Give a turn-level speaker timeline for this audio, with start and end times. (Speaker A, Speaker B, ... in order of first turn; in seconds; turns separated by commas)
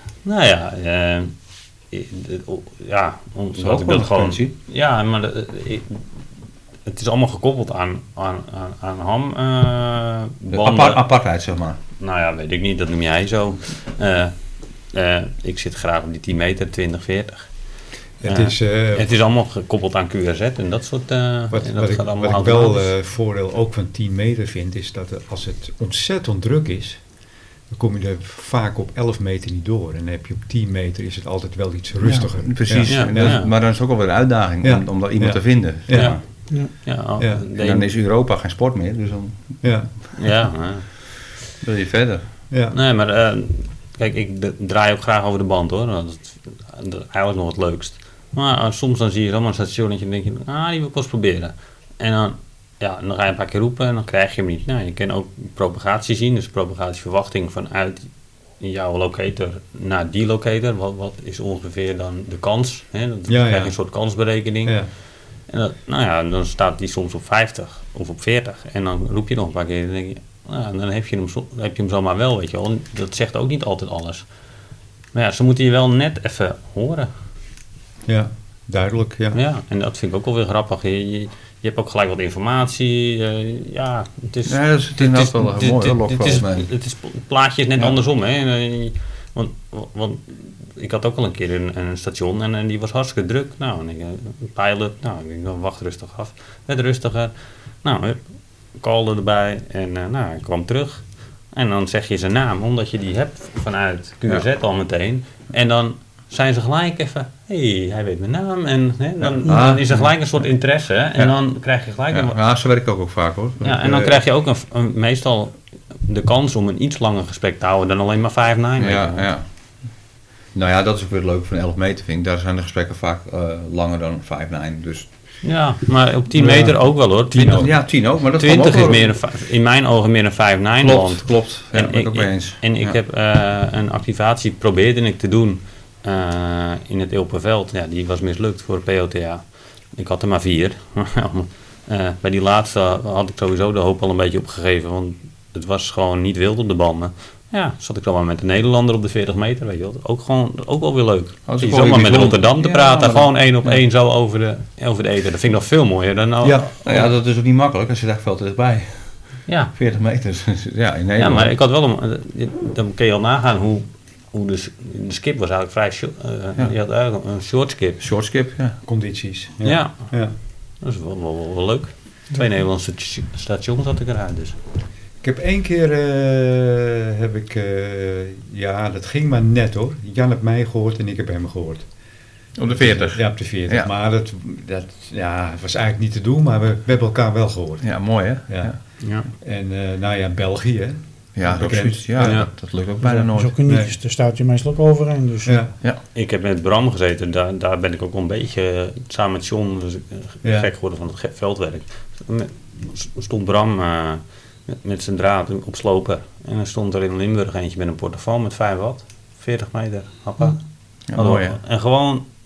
Speaker A: 0.2-1.3, Speaker A: 1.9-6.0, Speaker B: 3.6-4.5, Speaker A: 6.8-11.0, Speaker B: 10.5-11.8, Speaker A: 12.0-14.3, Speaker A: 14.9-17.5, Speaker C: 18.2-19.1, Speaker A: 18.2-22.9, Speaker C: 21.5-27.0, Speaker C: 27.7-33.4, Speaker B: 32.0-36.2, Speaker A: 32.9-33.5, Speaker C: 34.6-36.2, Speaker A: 35.9-36.2, Speaker A: 36.7-37.9, Speaker C: 37.2-37.4, Speaker B: 37.5-39.6, Speaker C: 39.6-39.9, Speaker A: 40.1-40.8, Speaker B: 41.6-42.2, Speaker C: 42.5-42.8, Speaker A: 42.7-58.1, Speaker A: 58.6-64.8, Speaker C: 63.3-63.7, Speaker A: 65.5-74.2, Speaker A: 75.1-77.1, Speaker C: 78.0-79.4, Speaker A: 79.3-97.3, Speaker B: 84.5-86.7, Speaker A: 97.8-98.2, Speaker A: 98.8-101.0, Speaker A: 101.5-112.4, Speaker B: 109.2-110.1, Speaker B: 112.1-114.2, Speaker A: 113.6-119.3, Speaker B: 118.8-119.4, Speaker B: 120.5-125.1, Speaker A: 125.4-139.4, Speaker C: 126.3-126.8, Speaker C: 127.3-127.7, Speaker B: 127.5-129.1, Speaker B: 130.8-132.9, Speaker A: 139.9-157.1, Speaker B: 151.5-153.8, Speaker B: 156.8-159.1, Speaker A: 159.5-159.7, Speaker B: 159.7-161.5, Speaker A: 161.2-168.0, Speaker B: 168.0-168.8, Speaker C: 168.8-170.3, Speaker A: 169.6-170.1, Speaker A: 170.8-174.6, Speaker C: 175.2-181.9, Speaker B: 182.6-183.9, Speaker C: 182.7-187.9, Speaker B: 187.8-188.8, Speaker C: 188.5-188.8, Speaker A: 189.0-189.3, Speaker C: 189.4-192.4, Speaker B: 191.3-193.5, Speaker A: 192.2-192.5, Speaker D: 193.3-195.6, Speaker C: 193.7-193.9, Speaker C: 195.4-195.7, Speaker A: 196.1-210.6, Speaker C: 200.4-200.7, Speaker B: 211.1-211.6, Speaker A: 211.1-212.2